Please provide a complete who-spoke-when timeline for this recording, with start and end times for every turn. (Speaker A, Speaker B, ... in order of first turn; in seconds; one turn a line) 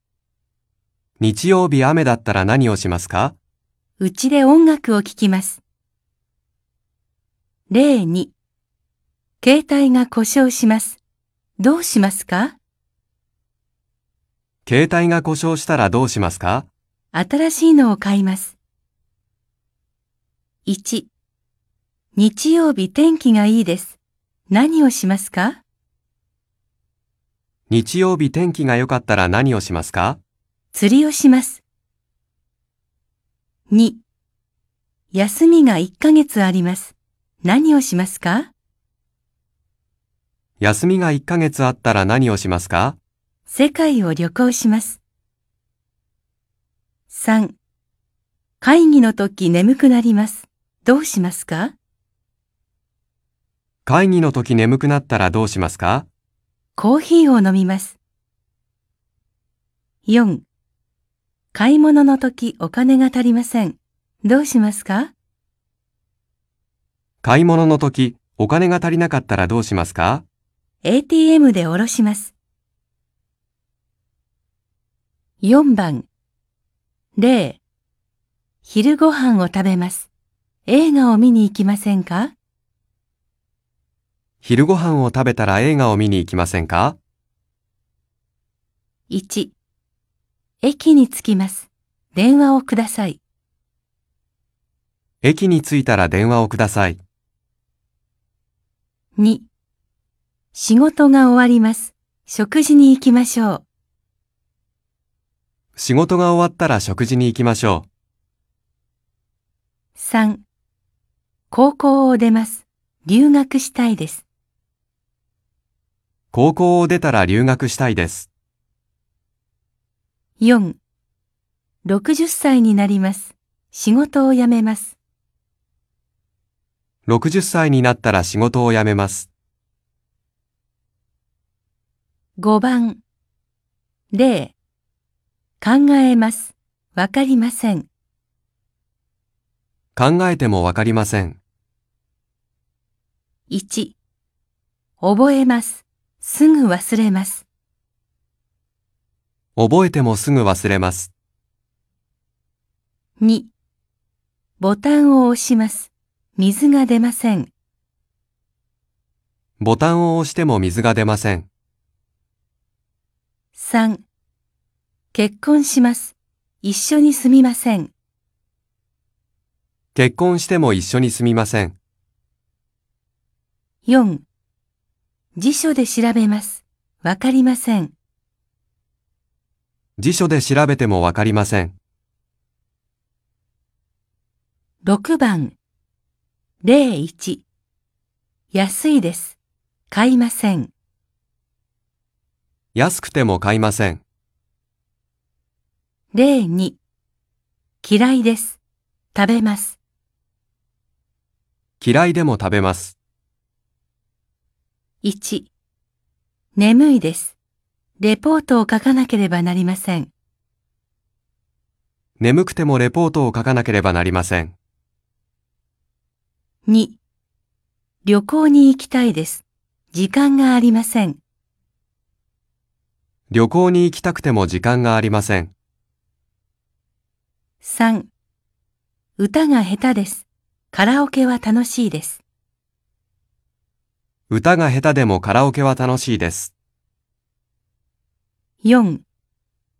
Speaker A: 1.2-3.4
Speaker B: 4.0-5.6
Speaker B: 7.7-8.3
Speaker B: 9.4-11.0
Speaker B: 11.6-12.6
Speaker A: 14.7-16.7
Speaker B: 17.1-18.6
Speaker B: 20.6-21.1
Speaker B: 22.1-24.0
Speaker B: 24.5-25.6
Speaker A: 27.7-30.2
Speaker B: 30.7-31.6
Speaker B: 33.7-34.0
Speaker B: 35.1-38.5
Speaker A: 40.6-43.0
Speaker B: 43.5-45.0
Speaker B: 47.1-47.5
Speaker B: 48.6-51.7
Speaker A: 53.9-56.1
Speaker B: 56.8-58.0
Speaker B: 60.0-60.4
Speaker B: 61.5-65.1
Speaker A: 67.2-70.2
Speaker B: 70.8-72.3
Speaker B: 75.4-76.1
Speaker B: 77.2-77.6
Speaker B: 78.6-80.1
Speaker B: 80.7-82.3
Speaker A: 84.4-87.0
Speaker B: 89.1-89.5
Speaker B: 90.6-93.2
Speaker A: 95.2-97.0
Speaker B: 99.2-99.5
Speaker B: 100.5-103.6
Speaker A: 105.8-107.9
Speaker B: 110.0-110.4
Speaker B: 111.5-114.2
Speaker A: 116.3-118.3
Speaker B: 120.4-120.8
Speaker B: 121.8-124.9
Speaker A: 127.1-129.3
Speaker B: 132.4-133.0
Speaker B: 134.1-134.5
Speaker B: 135.6-137.9
Speaker A: 139.9-141.4
Speaker B: 143.5-143.9
Speaker B: 145.0-147.4
Speaker A: 149.6-151.1
Speaker B: 153.2-153.5
Speaker B: 154.6-157.5
Speaker A: 159.6-161.5
Speaker B: 163.5-164.0
Speaker B: 165.1-167.9
Speaker A: 169.9-171.8
Speaker B: 173.8-174.2
Speaker B: 175.4-177.9
Speaker A: 180.0-181.8
Speaker B: 184.8-185.5
Speaker B: 186.6-187.4
Speaker B: 188.5-189.3
Speaker B: 189.9-190.7
Speaker A: 192.7-194.0
Speaker B: 196.1-196.8
Speaker B: 197.8-198.6
Speaker B: 199.1-199.8
Speaker A: 201.8-202.9
Speaker B: 205.0-205.5
Speaker B: 206.6-207.3
Speaker B: 208.0-210.1
Speaker A: 212.2-214.5
Speaker B: 216.7-217.0
Speaker B: 218.0-221.2
Speaker A: 223.3-225.5
Speaker B: 227.6-228.1
Speaker B: 229.2-232.2
Speaker A: 234.3-236.5
Speaker B: 238.6-239.0